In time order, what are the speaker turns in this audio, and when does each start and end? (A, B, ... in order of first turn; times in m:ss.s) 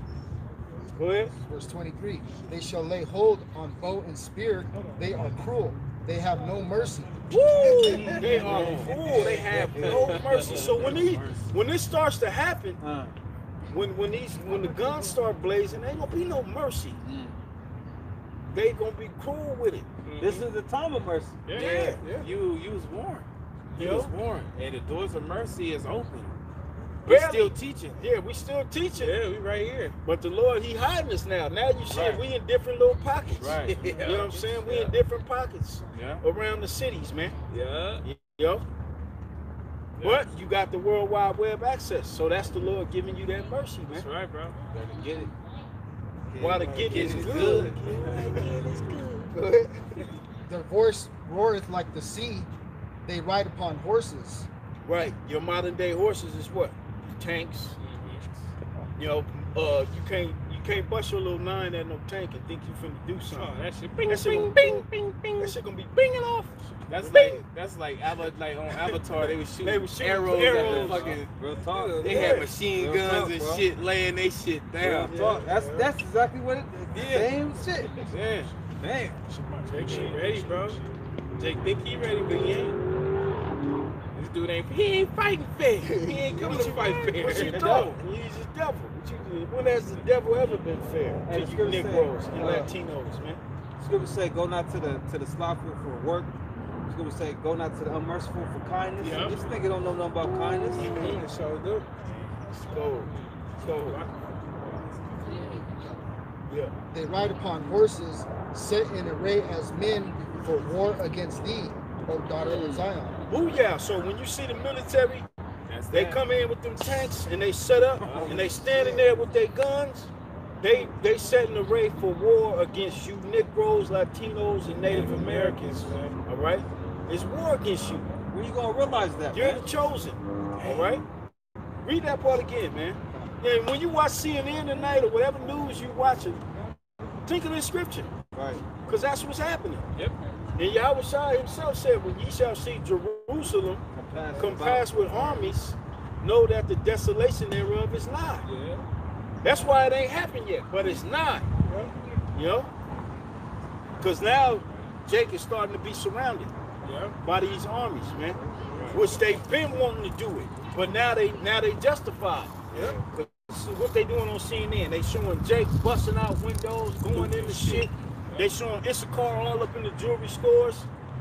0:01.0-0:01.3 A
0:01.5-0:08.2 B
0:07.5-0:10.7 C
0:07.6-0:10.9 D
0:07.7-0:12.8 A
0:08.7-0:11.5 E
0:12.8-0:13.1 C
0:13.7-0:17.0 A
0:17.0-0:17.3 C
0:18.5-0:19.8 A
0:20.0-0:20.5 D
0:20.2-0:21.4 C
0:21.4-0:22.3 D
0:21.5-0:22.0 A
0:21.5-0:26.4 E
0:23.8-0:24.1 A
0:27.0-0:29.2 A
0:27.0-0:28.0 E
0:29.0-0:29.9 D
0:30.0-0:37.4 A
0:31.9-0:32.2 E
0:33.4-0:33.9 E
0:33.4-0:34.9 D
0:35.9-0:36.2 E
0:37.5-0:38.0 D
0:38.0-0:38.6 A
0:40.0-0:44.1 A
0:43.9-0:44.6 D
0:44.8-0:45.3 C
0:46.3-0:48.7 E
0:46.3-0:48.7 A
0:46.8-0:49.0 D
0:49.3-0:49.8 A
0:50.5-0:52.5 B
0:53.0-0:54.5 B
0:54.8-0:57.8 A
0:57.8-0:58.2 D
0:59.0-1:04.8 A
1:03.3-1:04.6 D
1:04.1-1:05.6 E
1:05.4-1:07.4 A
1:06.9-1:11.3 E
1:08.8-1:11.2 A
1:10.3-1:12.4 D
1:11.3-1:13.6 C
1:12.0-1:15.1 E
1:12.0-1:12.5 A
1:14.8-1:18.1 C
1:14.8-1:15.9 D
1:15.1-1:15.5 A
1:16.9-1:17.4 D
1:18.1-1:18.5 E
1:18.8-1:19.2 C
1:19.6-1:20.8 D
1:19.8-1:20.6 A
1:21.4-1:22.8 D
1:24.1-1:28.0 D
1:26.1-1:33.4 A
1:27.2-1:27.9 C
1:31.3-1:32.7 C
1:33.8-1:36.3 C
1:36.9-1:41.1 C
1:39.0-1:39.4 D
1:40.7-1:41.9 D
1:40.8-1:41.2 A
1:42.4-1:43.1 A
1:43.0-1:45.6 D
1:43.6-1:44.0 A
1:46.9-1:53.2 B
1:52.4-1:52.9 C
1:53.3-1:55.2 A
1:55.7-1:56.2 E
1:55.9-2:08.1 A
1:58.0-1:58.5 D
1:58.1-1:58.4 C
2:04.8-2:06.2 D
2:08.3-2:09.6 C
2:09.3-2:11.0 A
2:10.6-2:10.9 D
2:11.8-2:16.5 A
2:17.2-2:18.1 A
2:18.3-2:18.6 C
2:18.8-2:19.8 A
2:20.6-2:23.8 A
2:23.9-2:25.0 C
2:24.3-2:28.4 A
2:28.4-2:28.8 D
2:29.4-2:31.6 A
2:31.6-2:31.9 D
2:32.3-2:32.7 A
2:34.0-2:36.5 A
2:36.8-2:37.1 D
2:37.2-2:50.9 A
2:38.6-2:39.3 D
2:42.7-2:43.0 D
2:47.1-2:48.5 D